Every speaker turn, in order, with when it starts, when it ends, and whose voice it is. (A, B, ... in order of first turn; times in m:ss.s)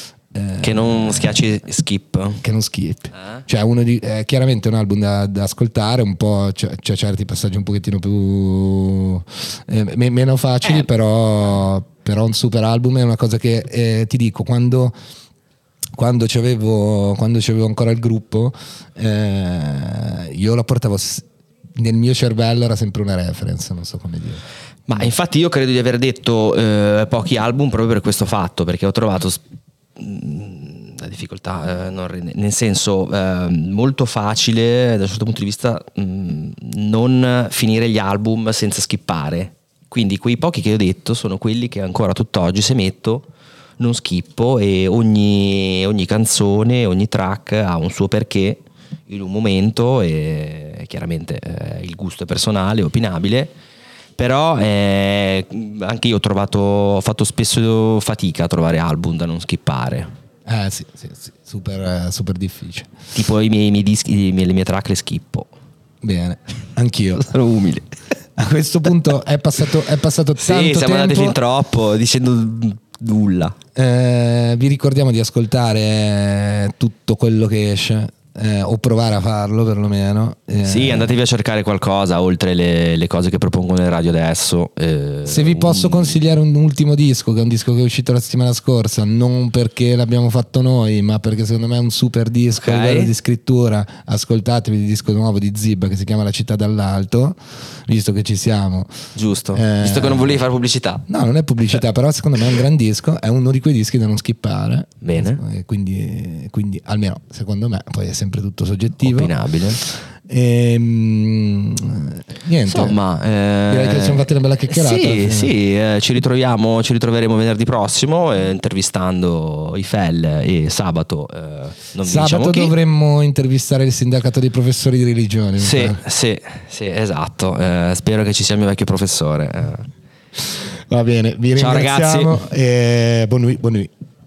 0:00.3-0:01.4 A
0:00.6-0:02.4 B
0:02.4-0:14.9 A
0:16.0-0:25.1 A
0:24.9-0:29.4 B
0:30.0-0:43.3 B
0:43.8-0:53.5 B
0:54.2-1:00.1 B
1:00.4-1:02.9 A
1:03.1-1:05.5 B
1:06.0-1:07.3 A
1:07.2-1:07.9 B
1:08.4-1:11.4 A
1:10.4-1:13.6 B
1:13.8-1:21.1 A
1:20.6-1:26.1 B
1:25.2-1:38.9 A
1:32.6-1:33.1 B
1:39.1-1:41.0 B
1:39.5-1:40.4 A
1:41.1-1:53.0 A
1:45.0-1:45.4 B
1:49.0-1:49.8 B
1:52.6-2:02.7 B
1:53.7-1:55.5 A
2:02.0-2:06.0 A
2:05.6-2:09.9 B
2:10.9-2:13.9 A
2:11.6-2:12.4 B